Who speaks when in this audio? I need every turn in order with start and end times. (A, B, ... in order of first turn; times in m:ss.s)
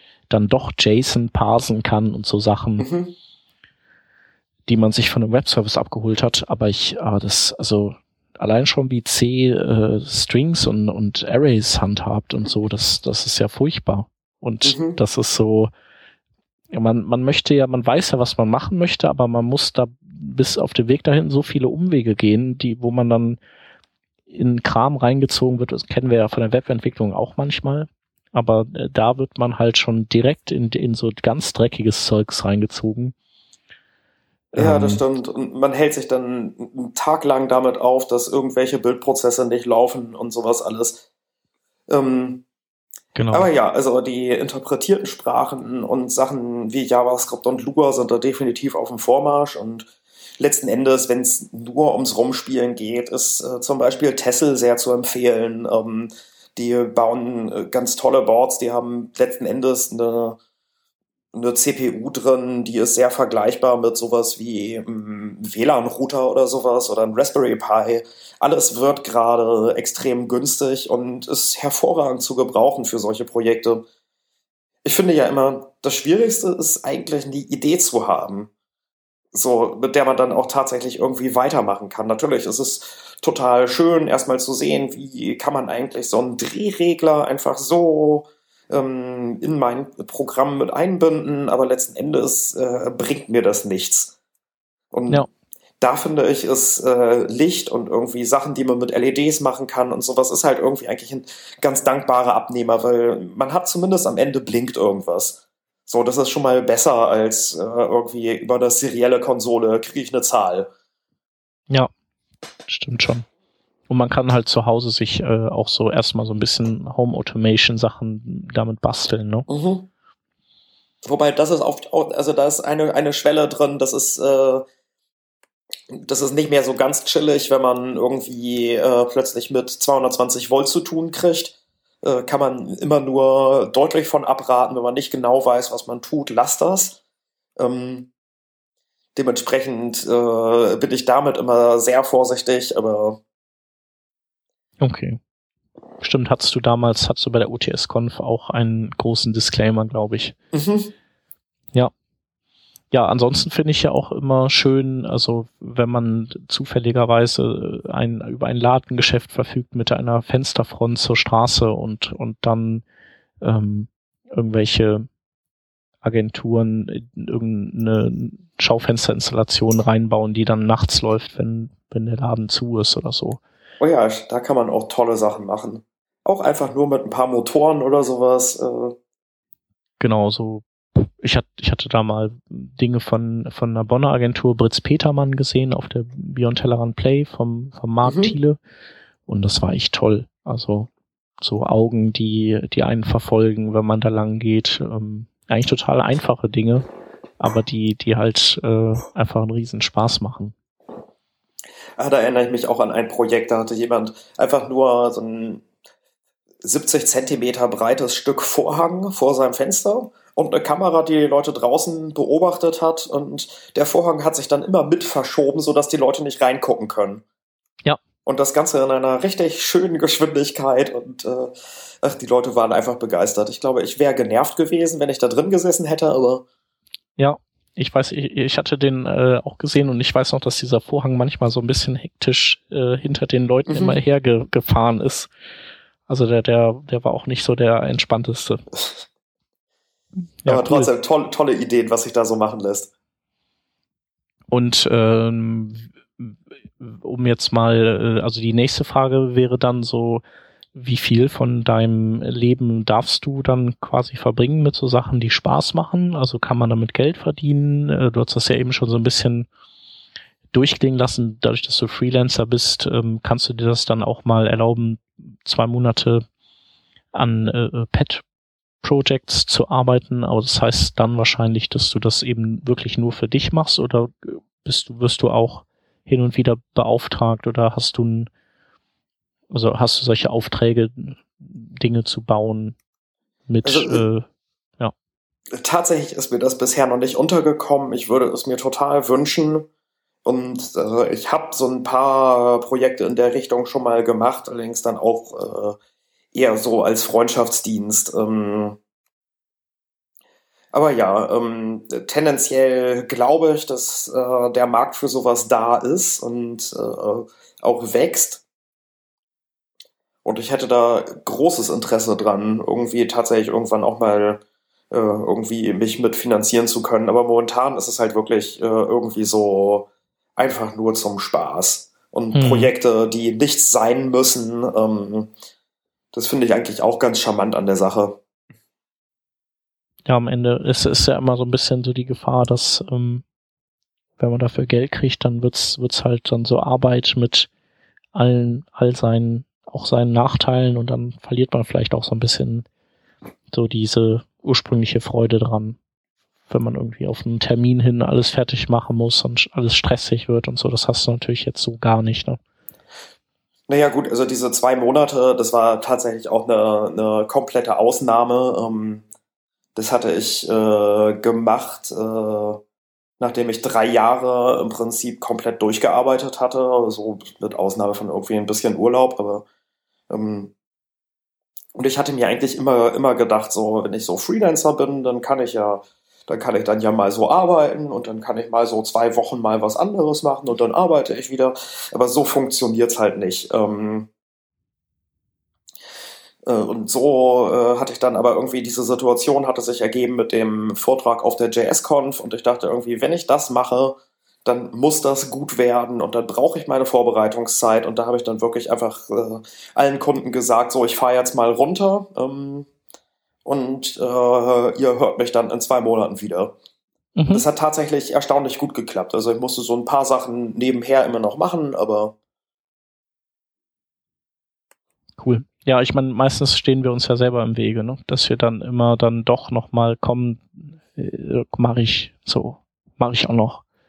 0:00.3-0:02.9 A
0:02.8-0:03.1 B
0:04.6-0:15.7 A
0:14.6-0:15.0 B
0:16.7-0:23.4 A
0:24.3-0:33.1 A
0:34.5-0:41.0 B
0:34.6-0:35.0 A
0:41.9-0:42.4 B
0:43.2-0:43.5 A
0:43.3-0:49.9 B
0:50.4-1:00.4 B
1:01.3-1:13.8 B
1:14.8-1:18.5 B
1:19.3-1:34.1 B
1:34.9-1:35.3 B
1:35.8-1:50.7 B
1:52.7-1:53.2 A
1:53.9-1:59.5 A
1:59.5-1:59.9 B
2:01.0-2:04.6 B
2:05.9-2:17.0 B
2:17.6-2:18.1 B
2:19.1-2:23.2 B
2:24.8-2:25.2 A
2:26.0-2:30.4 A
2:30.5-2:30.9 B
2:32.9-2:42.8 A
2:43.4-2:45.1 A
2:46.0-2:53.4 A
2:53.8-2:59.0 B
3:00.0-3:08.6 A
3:08.0-3:08.4 B
3:09.3-3:10.9 A
3:11.4-3:16.8 A
3:17.4-3:20.5 A
3:22.0-3:25.6 B
3:26.6-3:37.2 B
3:38.2-3:46.4 B
3:47.2-3:55.3 A
3:53.7-3:54.0 B
3:56.1-3:58.6 A
4:00.4-4:00.9 A
4:00.5-4:02.9 B
4:04.5-4:10.2 A
4:10.7-4:19.5 A
4:20.5-4:26.2 A
4:27.1-4:28.2 A
4:28.8-4:38.3 A
4:39.5-4:42.8 A
4:43.5-4:44.2 A
4:43.6-4:44.0 B
4:45.5-4:49.7 B
4:50.2-4:55.8 B
4:56.3-4:58.8 B
5:00.7-5:08.4 B
5:10.2-5:25.3 B
5:22.3-5:22.7 A
5:26.1-5:28.2 B
5:30.1-5:33.2 A
5:34.2-5:37.5 A
5:38.1-5:42.6 A
5:43.5-5:45.8 A
5:46.5-5:52.4 A
5:53.7-5:59.0 B
5:59.8-6:02.6 B
6:03.2-6:09.4 B
6:10.1-6:10.5 B
6:11.7-6:24.1 B
6:26.4-6:42.7 B
6:43.4-6:46.5 B
6:47.2-6:47.4 A
6:47.3-6:52.1 B
6:55.2-7:03.6 A